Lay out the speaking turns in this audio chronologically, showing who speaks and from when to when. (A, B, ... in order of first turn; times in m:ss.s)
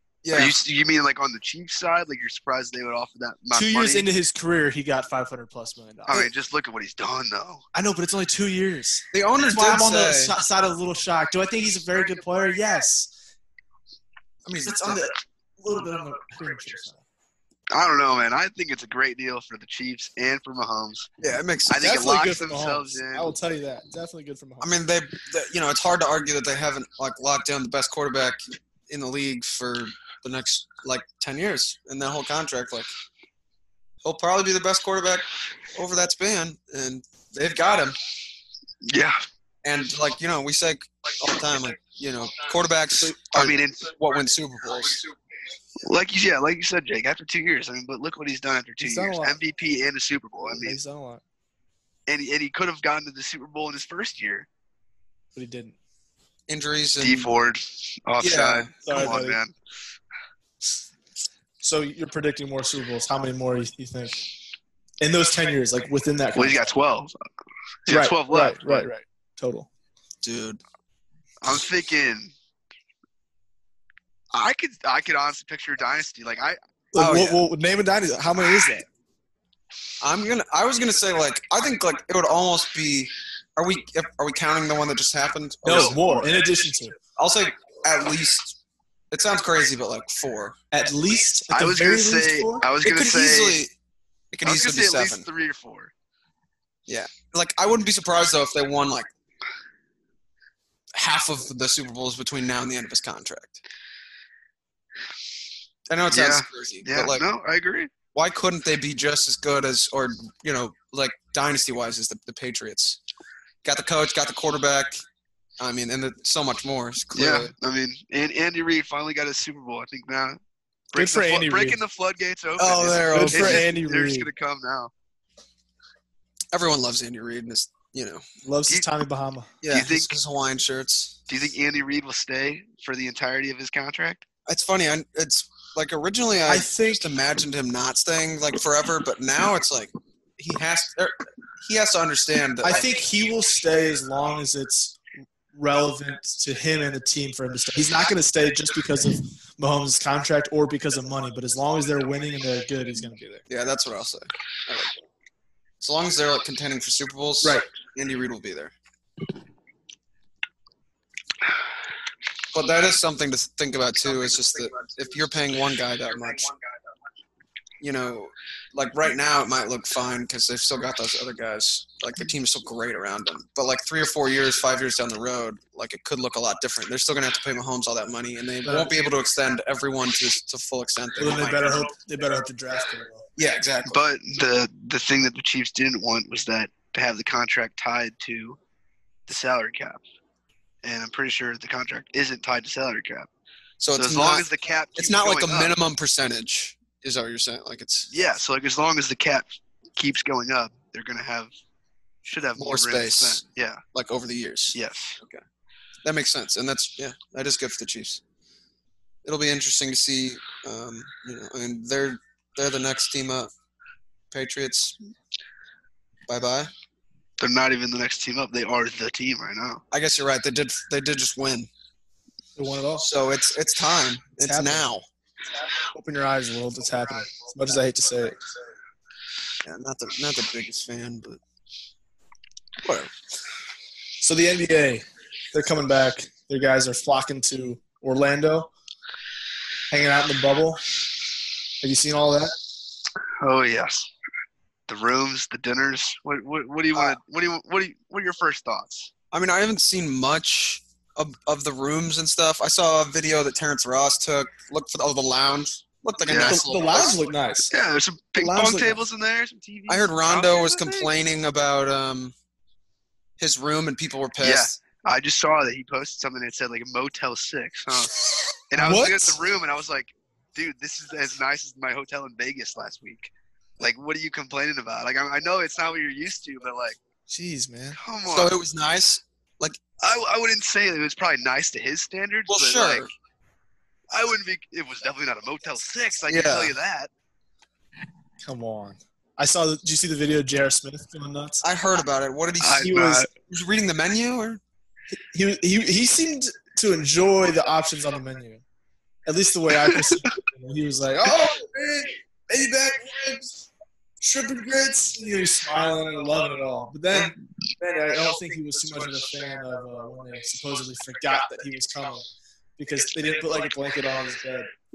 0:00.2-0:00.5 A
0:00.3-0:04.0 B
0:03.5-0:06.2 C
0:06.1-0:07.6 B
0:07.7-0:13.1 C
0:09.1-0:10.3 A
0:14.4-0:15.1 A
0:14.6-0:17.0 C
0:17.7-0:21.1 B
0:21.2-0:21.9 A
0:21.7-0:23.3 B
0:21.7-0:24.7 C
0:24.6-0:32.9 A
0:34.0-0:38.0 A
0:38.8-0:39.2 B
0:39.6-0:45.0 A
0:43.3-0:43.9 B
0:45.8-0:50.8 B
0:48.8-0:49.4 C
0:50.5-0:51.2 C
0:52.1-0:54.5 B
0:55.3-0:55.8 C
0:56.5-0:57.3 A
0:57.0-0:59.5 B
0:58.2-0:58.7 A
0:58.8-0:59.4 C
1:01.6-1:04.2 C
1:05.0-1:06.7 C
1:06.3-1:07.1 B
1:07.9-1:08.9 B
1:07.9-1:09.7 C
1:10.2-1:10.6 A
1:11.4-1:12.3 B
1:14.3-1:16.6 B
1:16.9-1:18.9 C
1:17.0-1:17.4 A
1:20.0-1:26.2 A
1:25.6-1:27.0 C
1:27.2-1:28.6 A
1:29.1-1:30.6 A
1:30.7-1:32.6 C
1:31.5-1:33.6 B
1:32.8-1:33.7 A
1:34.3-1:35.3 A
1:34.4-1:35.9 B
1:36.9-1:39.1 A
1:40.9-1:43.6 A
1:45.9-1:47.2 A
1:46.1-1:47.9 B
1:48.1-1:53.0 A
1:53.6-1:55.0 A
1:55.6-1:57.5 A
1:57.1-2:00.4 B
2:00.9-2:04.9 B
2:00.9-2:01.8 C
2:02.6-2:03.7 A
2:03.1-2:04.3 C
2:06.5-2:08.2 A
2:08.4-2:09.5 C
2:09.6-2:11.2 A
2:09.6-2:10.1 B
2:11.3-2:14.2 B
2:14.4-2:22.9 A
2:16.5-2:17.0 C
2:22.6-2:25.0 C
2:25.5-2:33.4 C
2:33.5-2:34.9 A
2:35.8-2:38.7 A
2:37.4-2:37.7 C
2:42.5-2:46.5 A
2:47.8-3:01.9 A
2:58.6-2:58.9 C
3:01.2-3:03.3 C
3:03.4-3:04.0 A
3:03.8-3:08.6 B
3:09.3-3:10.0 B
3:10.8-3:13.3 B
3:13.8-3:18.1 A
3:14.0-3:15.7 B
3:18.1-3:21.5 B
3:22.2-3:23.8 B
3:22.6-3:25.4 A
3:24.7-3:25.2 B
3:26.0-3:28.2 A
3:29.2-3:33.5 A
3:34.3-3:35.0 A
3:36.3-3:36.7 A
3:37.4-3:39.8 B
3:39.9-3:41.7 A
3:42.6-3:43.0 C
3:43.0-3:45.1 A
3:44.4-3:44.9 C
3:45.7-3:48.4 C
3:49.6-3:51.4 A
3:52.8-3:53.1 A
3:54.2-3:58.7 C
3:59.9-4:00.8 C
4:01.8-4:02.5 C
4:03.4-4:04.1 B
4:04.9-4:09.1 B
4:09.3-4:17.2 A
4:16.2-4:16.6 B
4:16.3-4:17.7 C
4:17.7-4:21.1 B
4:18.4-4:19.0 C
4:19.9-4:22.3 A
4:23.4-4:24.8 A
4:24.4-4:37.0 B
4:28.7-4:29.4 C
4:37.3-4:38.0 C
4:38.0-4:38.6 B
4:38.2-4:39.8 A
4:40.0-4:43.1 B
4:42.5-4:43.1 A
4:44.1-4:47.1 B
4:46.3-4:46.8 A
4:48.4-4:51.6 C
4:51.6-4:54.6 A
4:52.6-4:53.3 B
4:55.1-4:58.6 C
4:59.2-5:03.6 C
5:04.2-5:14.7 C